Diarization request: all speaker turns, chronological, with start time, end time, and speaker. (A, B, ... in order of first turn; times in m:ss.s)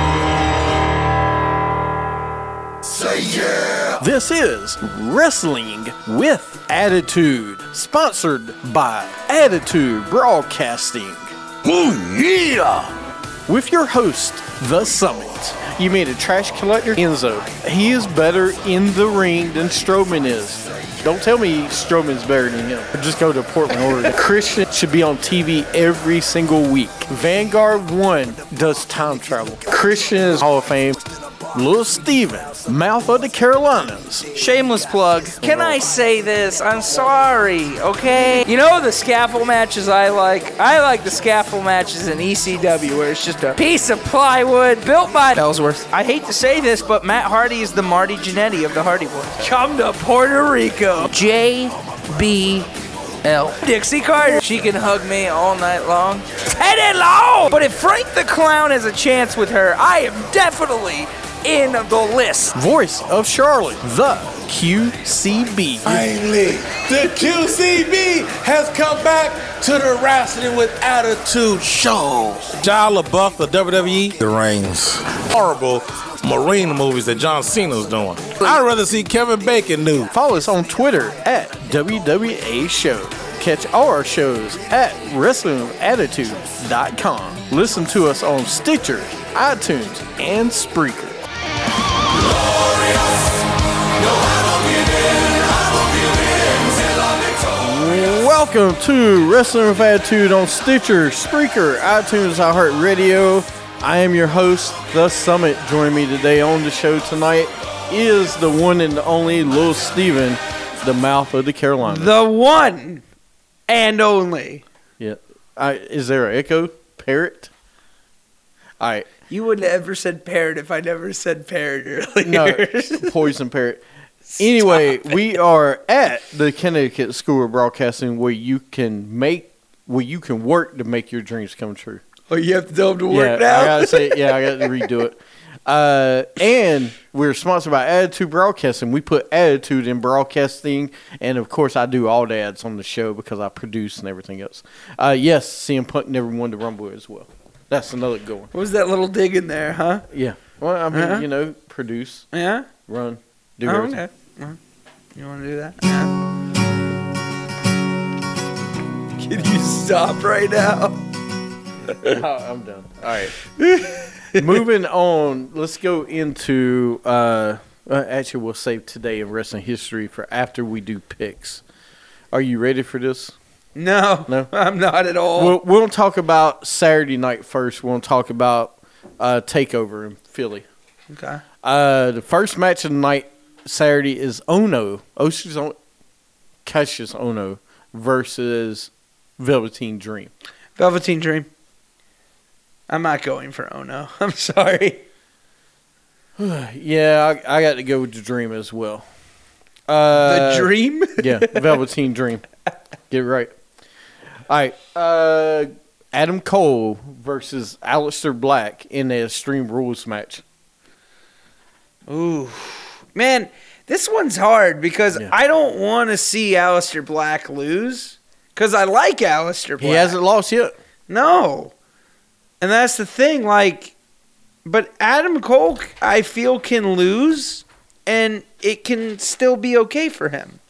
0:04.0-0:11.3 A
0:11.7-0:12.9 B
0:13.5-0:34.3 A
0:34.3-0:52.7 C
0:35.4-0:35.8 A
0:53.2-1:02.6 C
1:02.5-1:06.1 A
1:05.8-1:20.1 B
1:20.1-1:31.2 A
1:32.4-1:33.2 B
1:34.3-1:36.8 B
1:37.5-1:52.1 A
1:51.8-1:53.0 C
1:53.7-1:54.6 C
1:55.0-1:57.5 A
1:58.8-1:59.1 A
1:59.3-2:03.1 C
2:02.2-2:03.8 A
2:04.2-2:05.2 C
2:04.4-2:12.0 A
2:12.3-2:14.9 C
2:13.1-2:28.5 A
2:28.5-2:30.1 C
2:30.1-2:32.3 A
2:30.9-2:31.2 C
2:32.3-2:32.7 C
2:32.9-2:34.0 A
2:33.6-2:34.6 C
2:35.1-2:36.1 C
2:39.2-2:41.0 C
2:42.0-2:43.4 A
2:43.6-2:44.6 C
2:44.3-2:51.6 A
2:52.3-2:53.3 A
2:53.8-2:55.6 C
2:55.3-3:00.6 A
3:01.1-3:01.4 C
3:01.6-3:05.8 A
3:06.6-3:10.3 A
3:10.8-3:11.5 C
3:12.9-3:15.0 C
3:16.4-3:19.1 A
3:19.9-3:22.4 A
3:20.1-3:21.8 C
3:23.1-3:23.5 A
3:24.5-3:30.4 A
3:32.1-3:40.2 C
3:39.8-3:40.7 A
3:41.1-3:41.7 C
3:42.6-3:43.9 C
3:44.6-3:50.6 C